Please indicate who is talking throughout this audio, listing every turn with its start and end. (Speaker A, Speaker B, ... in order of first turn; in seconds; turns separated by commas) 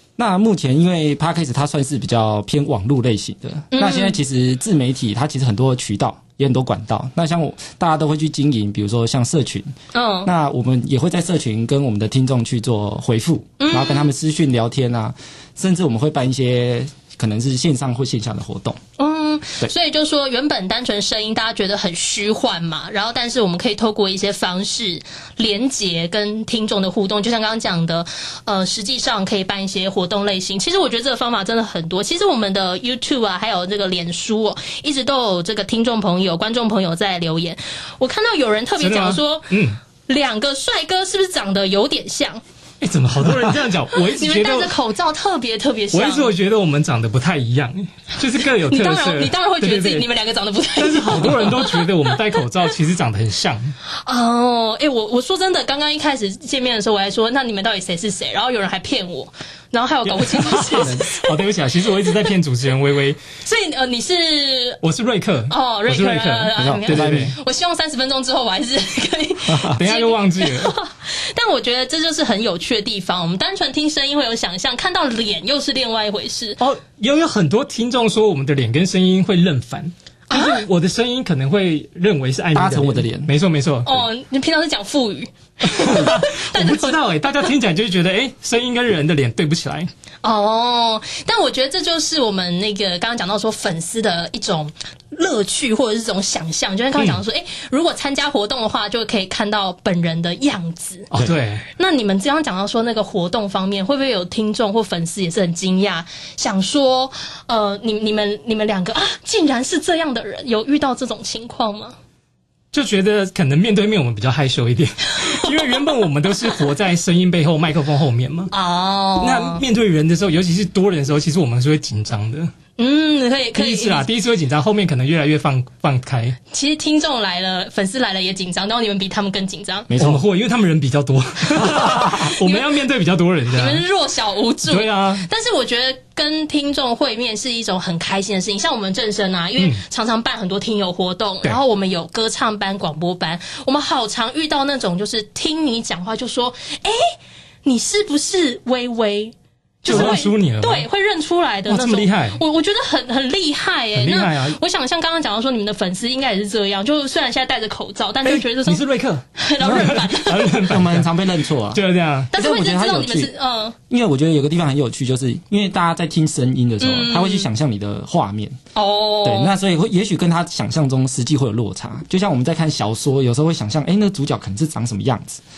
Speaker A: 0.2-9.7, Speaker B: 3.7-4.2, Speaker B: 9.9-10.3, Speaker A: 10.2-18.8, Speaker B: 13.6-14.1, Speaker B: 19.0-39.5, Speaker C: 38.8-39.8, Speaker B: 40.1-42.4, Speaker C: 42.8-44.7, Speaker B: 44.0-46.3, Speaker C: 45.9-50.0, Speaker B: 48.7-51.9, Speaker C: 50.8-53.8, Speaker B: 54.0-61.3, Speaker C: 60.1-63.2, Speaker B: 63.4-64.8, Speaker C: 64.8-67.4, Speaker B: 65.5-76.6, Speaker A: 66.6-67.3, Speaker A: 69.5-69.8, Speaker C: 69.8-70.7, Speaker C: 76.6-84.0, Speaker B: 80.3-80.6, Speaker A: 82.5-83.3, Speaker B: 83.9-87.0, Speaker C: 85.7-89.9, Speaker B: 90.2-101.1, Speaker C: 101.2-101.7, Speaker B: 101.8-112.0, Speaker C: 112.7-118.5, Speaker B: 115.4-115.8, Speaker B: 118.5-119.6, Speaker C: 119.2-122.5, Speaker B: 122.8-124.1, Speaker C: 123.6-126.4, Speaker B: 126.5-129.9, Speaker A: 129.9-130.2, Speaker C: 130.0-133.9, Speaker A: 131.6-132.1, Speaker B: 132.4-132.7, Speaker B: 133.5-147.0, Speaker C: 134.7-135.3, Speaker B: 147.7-158.8, Speaker C: 149.8-150.9, Speaker A: 149.9-150.2, Speaker C: 151.7-152.4, Speaker C: 153.9-154.6, Speaker C: 158.2-161.1, Speaker B: 159.4-160.6, Speaker A: 159.6-160.0, Speaker A: 160.7-163.3, Speaker C: 161.7-162.3, Speaker B: 162.3-163.8, Speaker A: 163.9-168.6, Speaker B: 166.8-167.5, Speaker B: 168.8-169.5, Speaker A: 169.2-175.4